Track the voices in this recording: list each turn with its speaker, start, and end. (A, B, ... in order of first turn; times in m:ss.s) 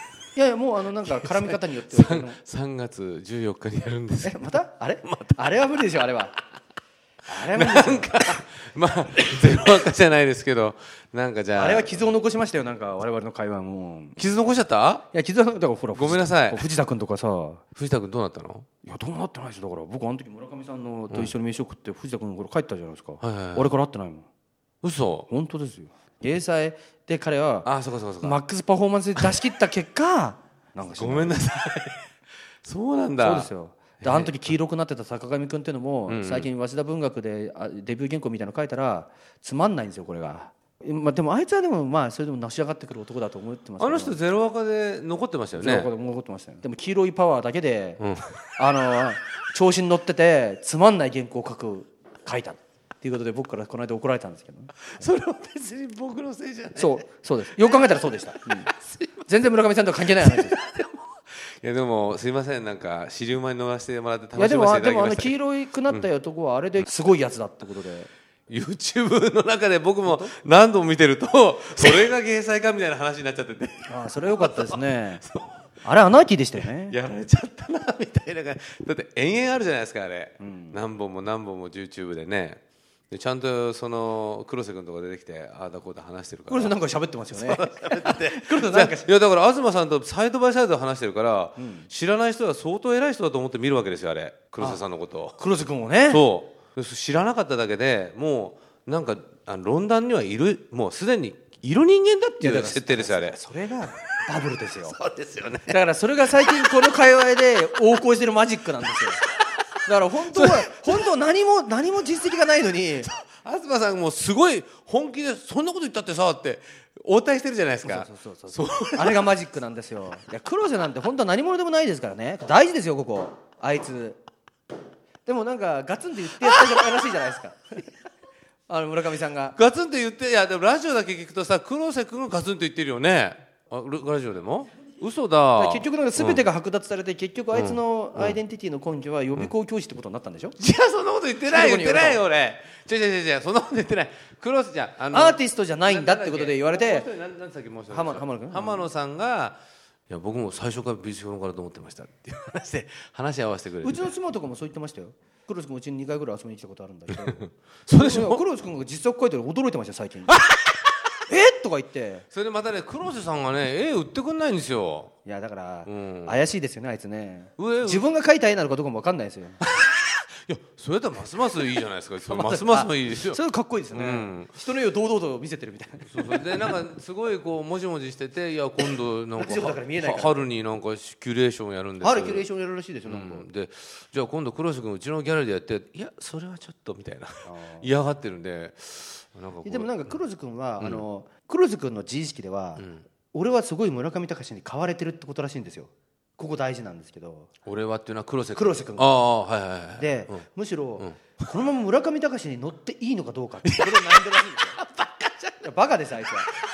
0:00.4-0:02.4 A
0:01.1-0:05.4 B
0:04.2-0:06.4 A
0:07.3-0:08.4 A
0:07.3-0:12.1 B
0:11.6-0:14.2 A
0:14.2-0:15.1 B
0:15.1-0:17.6 A
0:15.9-0:16.7 B
0:17.8-0:18.7 B
0:18.8-0:24.3 A
0:23.2-0:23.7 B
0:24.8-0:25.3 B
0:25.3-0:27.7 A
0:27.6-0:28.4 B
0:28.2-0:31.4 A
0:31.0-0:32.0 B
0:32.6-0:33.5 B
0:33.2-0:44.2 A
0:34.0-0:34.3 B
0:36.1-0:36.5 B
0:43.8-0:45.9 B
0:45.6-0:48.0 A
0:48.0-0:48.4 B
0:48.6-0:55.1 A
0:54.9-0:57.0 B
0:56.8-0:58.7 A
0:57.7-0:59.3 B
0:59.3-1:00.6 A
1:00.1-1:05.3 B
1:04.4-1:08.1 A
1:08.5-1:15.8 B
1:10.0-1:10.3 A
1:13.9-1:15.2 A
1:15.8-1:17.0 A
1:16.6-1:26.8 B
1:20.4-1:20.8 A
1:26.5-1:29.1 A
1:27.3-1:35.4 B
1:31.6-1:31.9 A
1:35.4-1:36.2 A
1:36.1-1:43.4 B
1:42.4-1:45.0 A
1:44.8-1:45.8 B
1:45.7-1:49.2 A
1:49.8-1:53.1 A
1:50.3-1:50.8 B
1:53.0-1:59.3 B
1:57.8-2:04.2 A
2:05.2-2:07.9 A
2:08.7-2:09.6 A
2:09.6-2:16.4 B
2:15.6-2:20.6 A
2:17.5-2:18.4 B
2:20.6-2:29.6 B
2:21.4-2:22.2 A
2:25.1-2:27.1 A
2:27.9-2:28.9 A
2:30.1-2:34.1 B
2:33.8-2:40.4 A
2:37.9-2:38.4 B
2:40.3-2:40.8 B
2:41.3-2:42.3 A
2:42.3-2:45.1 B
2:45.2-2:49.6 A
2:45.8-2:46.4 B
2:47.6-2:48.1 B
2:49.6-2:53.4 B
2:52.3-2:56.7 A
2:53.9-2:54.5 B
2:56.1-3:02.5 B
2:59.4-3:00.5 A
3:02.0-3:03.5 A
3:03.1-3:10.0 B
3:07.4-3:07.9 A
3:09.6-3:17.5 A
3:10.8-3:11.0 B
3:12.8-3:13.1 B
3:17.7-3:20.4 B
3:18.6-3:19.2 A
3:20.0-3:24.8 A
3:21.0-3:21.6 B
3:23.6-3:25.6 B
3:25.6-3:26.5 A